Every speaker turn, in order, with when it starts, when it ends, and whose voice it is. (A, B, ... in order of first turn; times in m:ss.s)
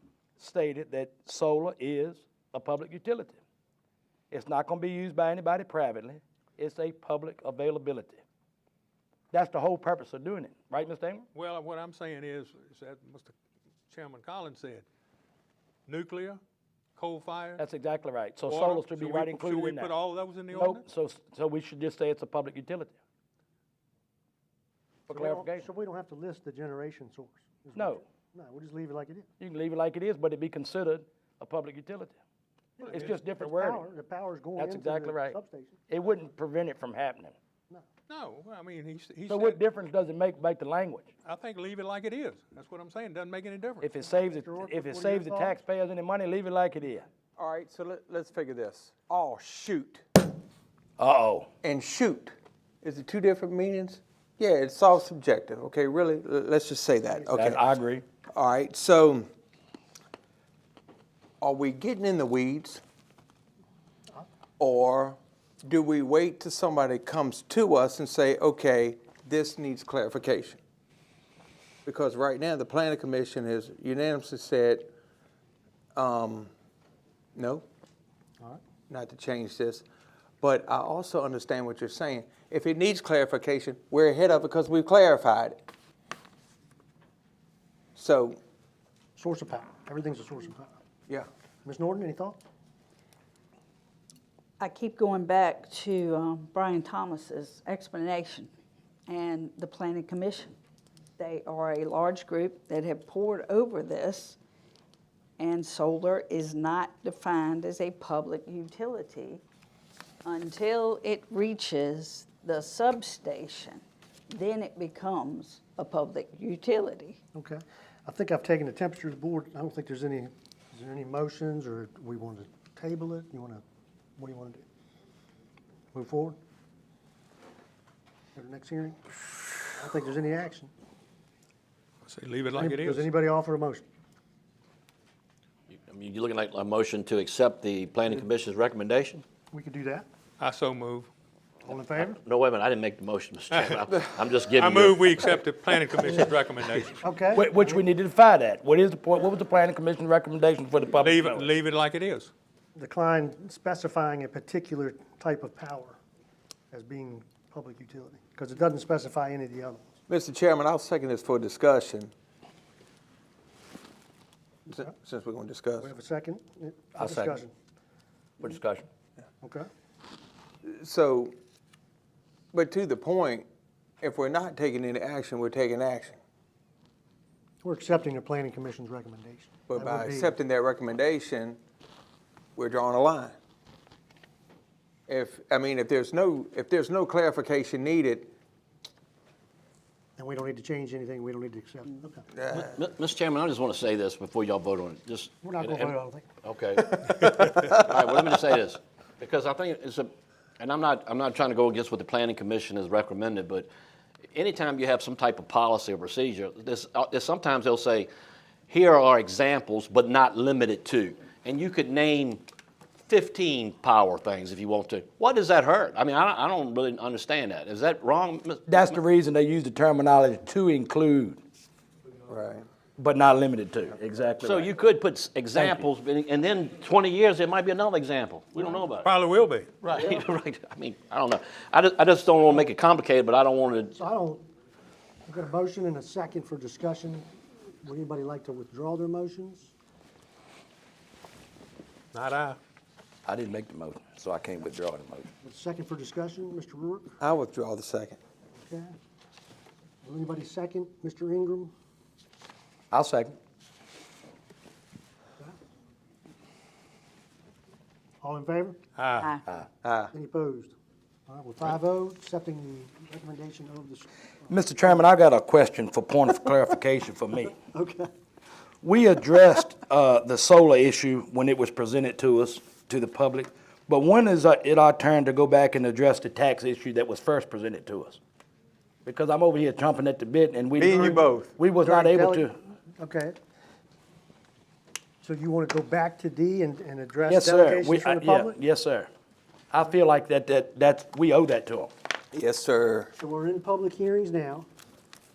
0:00.4-0:03.4 A
0:04.3-0:08.2 A
0:09.3-0:11.3 A
0:11.3-0:13.3 B
0:13.9-0:14.8 B
0:15.9-0:16.4 B
0:17.0-0:17.6 B
0:17.6-0:19.9 A
0:18.4-0:20.8 B
0:20.5-0:23.0 A
0:25.1-0:25.6 A
0:25.1-0:29.3 C
0:27.7-0:28.0 A
0:29.4-0:32.2 A
0:32.8-0:35.8 C
0:32.9-0:33.8 A
0:34.6-0:35.4 A
0:35.9-0:37.3 A
0:38.1-0:39.6 B
0:39.3-0:41.1 A
0:41.2-0:43.9 B
0:43.8-0:47.1 A
0:44.0-0:45.6 C
0:47.4-0:50.0 D
0:51.0-0:51.5 A
0:51.6-0:57.6 D
0:57.1-0:57.5 C
0:57.3-0:58.0 A
0:58.3-0:59.3 D
1:01.4-1:02.8 D
1:04.6-1:10.6 D
1:11.8-1:14.9 D
1:15.9-1:16.5 D
1:17.3-1:17.6 D
1:18.9-1:19.8 D
1:20.4-1:25.6 D
1:28.0-1:28.4 D
1:29.2-1:30.8 C
1:31.6-1:32.4 C
1:34.6-1:38.5 E
1:39.1-1:40.6 E
1:41.2-1:44.4 E
1:45.4-1:49.4 E
1:50.2-1:57.2 E
1:57.3-2:03.6 C
2:04.2-2:04.6 C
2:05.9-2:06.4 C
2:08.3-2:09.0 C
2:09.6-2:10.7 C
2:12.0-2:13.1 B
2:12.5-2:13.8 C
2:15.7-2:19.2 F
2:19.5-2:20.0 C
2:20.4-2:21.1 B
2:21.6-2:22.2 C
2:22.2-2:25.1 F
2:23.5-2:23.8 B
2:24.4-2:27.0 B
2:27.0-2:27.8 C
2:27.3-2:31.5 A
2:30.9-2:32.3 B
2:32.7-2:36.0 C
2:36.7-2:39.9 C
2:40.1-2:42.1 D
2:44.7-2:45.9 D
2:45.8-2:47.5 C
2:47.0-2:47.4 A
2:48.4-2:48.9 A
2:49.4-2:49.7 C
2:50.6-2:51.3 D
2:52.5-2:53.4 D
2:54.0-2:56.2 D
2:57.6-3:00.4 C
2:59.7-3:01.6 D
3:02.6-3:03.3 D
3:05.1-3:08.3 D
3:10.2-3:12.2 C
3:12.4-3:12.7 D
3:12.5-3:23.7 F
3:15.4-3:16.8 C
3:24.3-3:28.1 F
3:28.7-3:32.4 F
3:33.0-3:38.8 F
3:38.7-3:41.4 A
3:42.3-3:42.6 D
3:43.0-3:44.7 A
3:44.4-3:49.1 F
3:45.5-3:45.9 A
3:49.0-3:50.0 B
3:49.8-3:53.9 F
3:53.9-3:54.4 C
3:55.3-3:57.3 C
3:57.8-3:59.7 C
4:02.1-4:02.6 B
4:03.2-4:05.3 A
4:05.4-4:07.2 C
4:07.2-4:08.2 D
4:08.6-4:08.9 C
4:10.0-4:11.7 C
4:12.9-4:13.4 A
4:18.2-4:18.8 C
4:19.0-4:19.3 B
4:19.8-4:20.1 D
4:20.1-4:20.7 C
4:21.3-4:24.1 C
4:24.5-4:27.6 A
4:27.6-4:28.1 C
4:28.8-4:38.2 A
4:39.0-4:42.5 A
4:40.8-4:41.5 D
4:40.9-4:41.2 C
4:41.8-4:43.4 C
4:45.2-4:48.6 C
4:47.3-4:49.1 A
4:49.7-4:51.9 A
4:52.3-4:53.1 D
4:53.2-4:54.7 C